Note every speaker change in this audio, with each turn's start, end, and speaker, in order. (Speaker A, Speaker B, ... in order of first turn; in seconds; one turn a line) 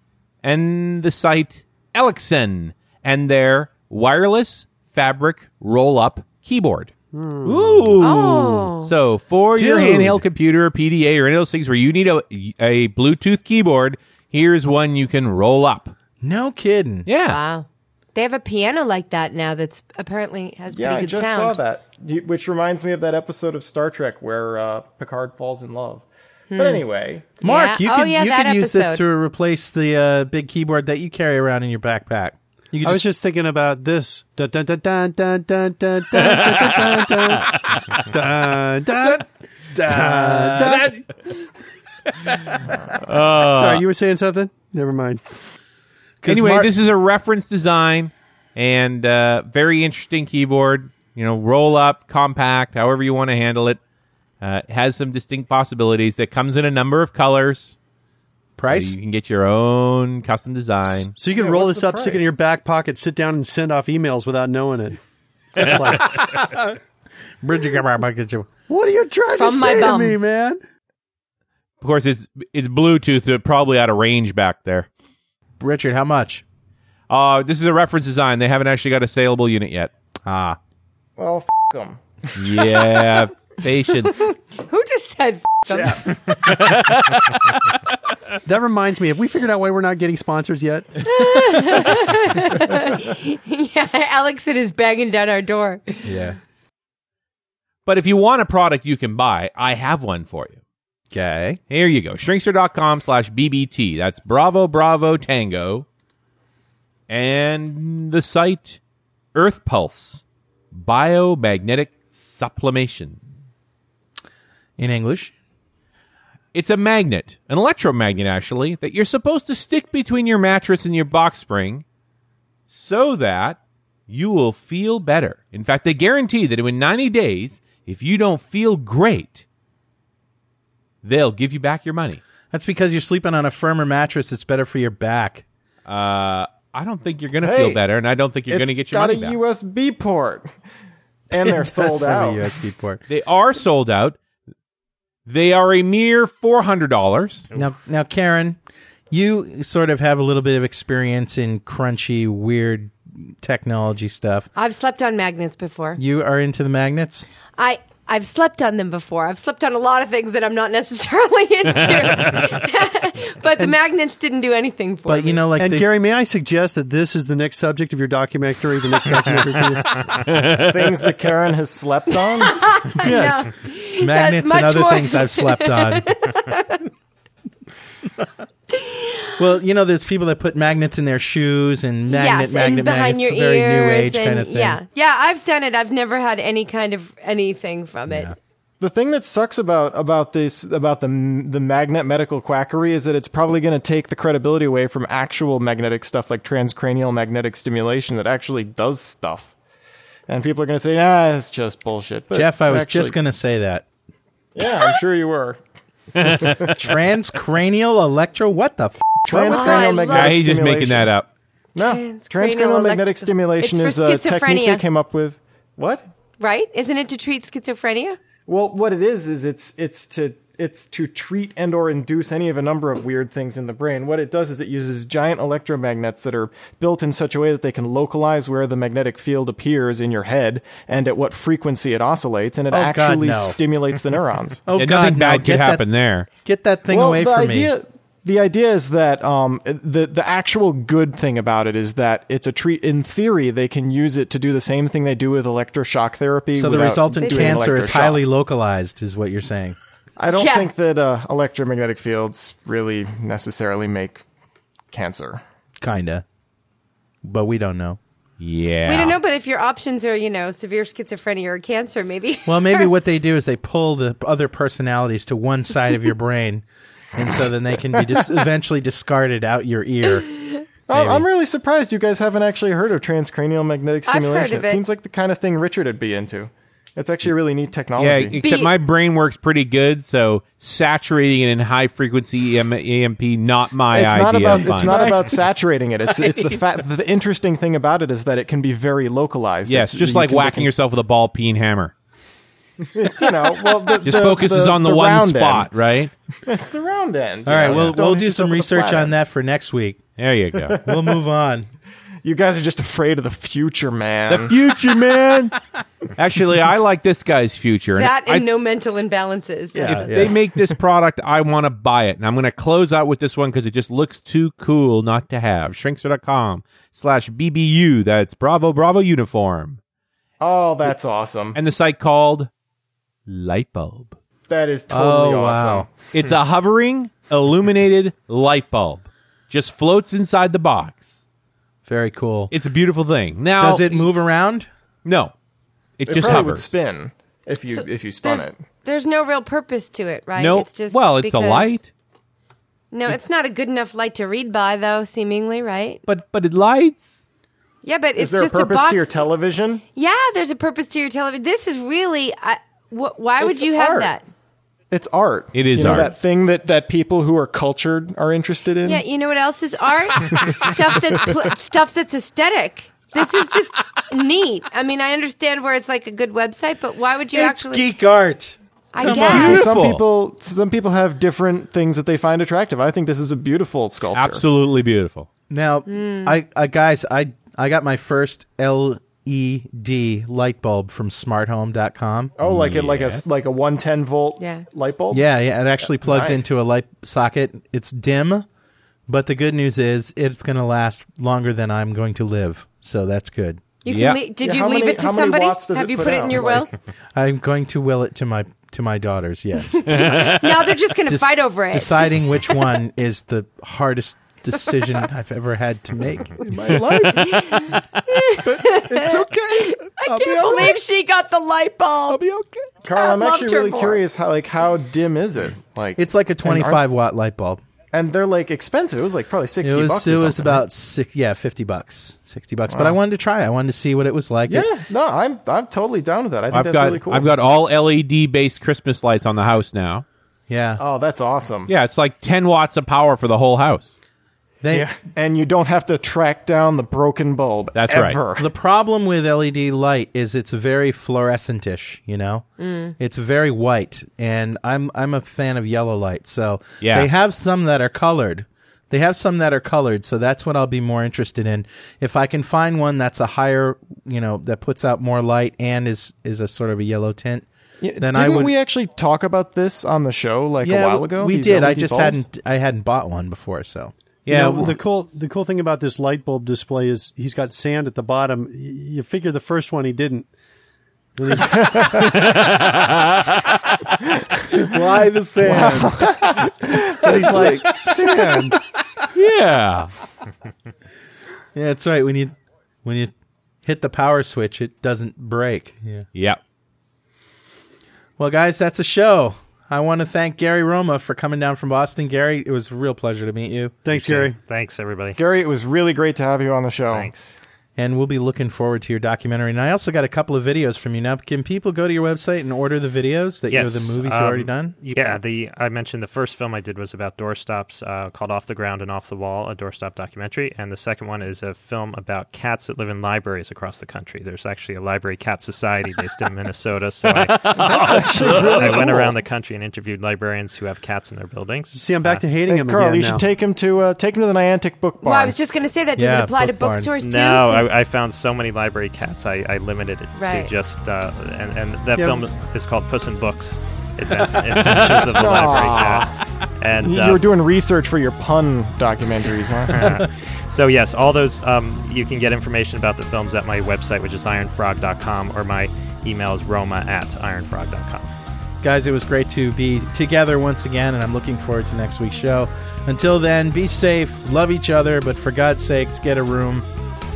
Speaker A: 0.4-6.9
Speaker B: 7.1-8.0
Speaker A: 7.4-15.9
Speaker C: 8.0-8.9
Speaker D: 9.5-10.2
Speaker D: 16.2-17.1
Speaker A: 17.1-17.4
Speaker C: 17.3-21.6
Speaker E: 20.7-27.3
Speaker C: 26.5-26.8
Speaker D: 27.4-33.0
Speaker C: 27.4-29.0
Speaker B: 32.8-40.9
Speaker A: 36.2-38.1
Speaker D: 39.8-41.0
Speaker A: 43.0-43.8
Speaker B: 43.2-45.2
Speaker D: 46.2-46.7
Speaker A: 46.3-53.8
Speaker A: 54.4-57.8
Speaker D: 58.6-59.0
Speaker A: 58.7-61.1
Speaker B: 61.1-65.0
Speaker E: 61.3-62.3
Speaker B: 65.5-66.6
Speaker D: 67.4-68.5
Speaker B: 68.7-70.6
Speaker C: 69.3-70.2
Speaker A: 71.8-74.9
Speaker D: 75.6-76.4
Speaker A: 77.1-79.9
Speaker D: 80.3-80.6
Speaker E: 81.2-82.9
Speaker A: 82.4-84.2
Speaker C: 84.0-86.0
Speaker D: 85.7-86.0
Speaker A: 86.3-87.7
Speaker B: 88.5-91.0
Speaker C: 91.0-96.1
Speaker D: 96.0-96.4
Speaker A: 97.9-100.6
Speaker D: 101.1-101.6
Speaker A: 101.7-105.9
Speaker A: 107.1-108.8
Speaker A: 109.3-113.2
Speaker D: 114.8-115.3
Speaker A: 116.5-121.8
Speaker A: 122.7-129.4
Speaker A: 131.0-132.2
Speaker D: 132.5-135.4
Speaker A: 135.9-139.4
Speaker E: 137.4-137.8
Speaker E: 138.5-140.5
Speaker E: 141.3-142.6
Speaker D: 141.4-143.0
Speaker A: 143.1-144.2
Speaker A: 145.3-147.4
Speaker D: 147.5-148.6
Speaker D: 149.1-154.5
Speaker C: 154.6-156.0
Speaker D: 156.0-157.3
Speaker C: 157.6-165.4
Speaker D: 165.1-165.9
Speaker B: 165.6-170.2
Speaker A: 169.9-170.9
Speaker E: 170.6-173.5
Speaker C: 172.1-176.8
Speaker D: 174.0-176.1
Speaker C: 178.7-179.3
Speaker D: 179.4-184.8
Speaker C: 182.1-188.3
Speaker D: 188.1-188.3
Speaker E: 188.8-199.5
Speaker E: 200.3-203.2
Speaker D: 202.3-203.8
Speaker E: 204.6-205.6
Speaker A: 206.2-206.8
Speaker E: 206.2-206.6
Speaker D: 206.7-210.1
Speaker E: 209.2-211.1
Speaker C: 209.5-210.4
Speaker A: 210.1-211.3
Speaker E: 211.8-216.0
Speaker C: 211.8-214.8
Speaker C: 216.4-218.2
Speaker E: 218.5-234.6
Speaker D: 232.7-233.6
Speaker D: 234.7-235.8
Speaker A: 234.8-236.3
Speaker D: 236.4-237.7
Speaker E: 236.9-248.2
Speaker D: 246.6-249.8
Speaker C: 247.1-247.9
Speaker E: 250.2-254.2
Speaker C: 250.3-250.7
Speaker E: 254.9-255.4
Speaker D: 255.8-256.2
Speaker D: 257.2-258.0
Speaker A: 258.4-259.2
Speaker C: 258.9-262.9
Speaker D: 262.5-270.4
Speaker C: 270.3-270.6
Speaker E: 270.9-278.4
Speaker D: 270.9-271.2
Speaker C: 274.1-274.8
Speaker A: 278.0-285.1
Speaker C: 278.4-278.7
Speaker E: 283.9-290.7
Speaker D: 284.8-285.1
Speaker A: 289.6-291.9
Speaker E: 292.9-295.7
Speaker A: 294.0-296.1
Speaker E: 296.4-299.2
Speaker D: 297.5-300.1
Speaker A: 297.6-298.0
Speaker A: 300.2-300.8
Speaker E: 300.7-301.2
Speaker D: 300.8-301.7
Speaker E: 302.2-304.6
Speaker A: 304.3-305.6
Speaker A: 306.2-308.5
Speaker C: 307.9-310.1
Speaker E: 309.8-310.3
Speaker A: 309.8-319.8
Speaker E: 320.4-321.6
Speaker A: 321.6-322.5
Speaker A: 323.3-324.2
Speaker E: 324.5-325.9
Speaker D: 324.9-325.9
Speaker A: 326.1-331.1
Speaker D: 331.9-332.5
Speaker A: 332.5-334.1
Speaker D: 333.6-334.7
Speaker A: 335.1-335.3
Speaker A: 336.0-336.7
Speaker E: 336.1-338.6
Speaker C: 337.7-341.8
Speaker A: 340.4-341.9
Speaker C: 342.9-346.0
Speaker A: 346.1-347.2
Speaker C: 347.8-349.1
Speaker E: 348.2-349.8
Speaker C: 349.9-354.2
Speaker E: 353.4-354.1
Speaker E: 354.9-359.0
Speaker A: 355.5-356.1
Speaker C: 358.9-367.9
Speaker D: 367.3-369.6
Speaker C: 368.9-369.7
Speaker E: 369.0-374.4
Speaker A: 369.2-370.0
Speaker A: 374.1-375.3
Speaker D: 375.5-382.4
Speaker C: 375.9-376.3
Speaker E: 382.4-385.3
Speaker A: 382.4-383.2
Speaker C: 384.4-384.6
Speaker D: 385.1-388.5
Speaker E: 385.8-386.6
Speaker D: 389.1-393.8
Speaker C: 393.8-396.7
Speaker A: 393.9-394.2
Speaker E: 394.4-396.7
Speaker D: 397.1-400.3
Speaker C: 399.7-402.6
Speaker A: 399.9-400.5
Speaker D: 401.1-407.1
Speaker E: 406.5-407.7
Speaker C: 407.1-412.2
Speaker E: 408.4-410.8
Speaker E: 412.1-416.8
Speaker C: 412.9-414.0
Speaker D: 416.0-417.6
Speaker E: 417.9-420.6
Speaker D: 419.6-424.7
Speaker E: 422.7-423.0
Speaker E: 424.5-427.4
Speaker A: 426.5-430.1
Speaker D: 430.5-430.8
Speaker E: 430.8-431.7
Speaker A: 431.7-433.9
Speaker D: 434.6-434.9
Speaker E: 434.7-438.5
Speaker A: 437.8-438.2
Speaker D: 438.4-457.5
Speaker C: 442.6-442.9
Speaker A: 446.8-447.1
Speaker E: 457.8-462.2
Speaker D: 458.0-458.5
Speaker D: 460.6-463.9
Speaker A: 464.3-464.7
Speaker B: 464.3-470.3
Speaker B: 471.2-472.1
Speaker E: 471.5-472.1
Speaker A: 471.9-473.6
Speaker D: 474.6-476.0
Speaker E: 475.4-478.4
Speaker D: 476.8-478.5
Speaker B: 477.0-478.5
Speaker A: 479.1-479.9
Speaker D: 481.6-483.1
Speaker D: 483.6-486.1
Speaker D: 488.2-494.3
Speaker B: 493.9-494.4
Speaker F: 494.4-495.2
Speaker E: 495.1-497.1
Speaker F: 496.9-497.4
Speaker D: 497.8-504.8
Speaker F: 503.5-522.2
Speaker E: 517.5-519.2
Speaker A: 517.6-518.6
Speaker B: 521.7-523.2
Speaker E: 522.5-525.4
Speaker C: 525.0-527.8
Speaker D: 526.0-526.9
Speaker F: 527.0-537.3
Speaker C: 530.1-530.5
Speaker B: 532.0-532.2
Speaker A: 534.3-535.1
Speaker E: 535.1-536.1
Speaker E: 536.8-540.0
Speaker F: 539.7-548.1
Speaker D: 548.6-556.7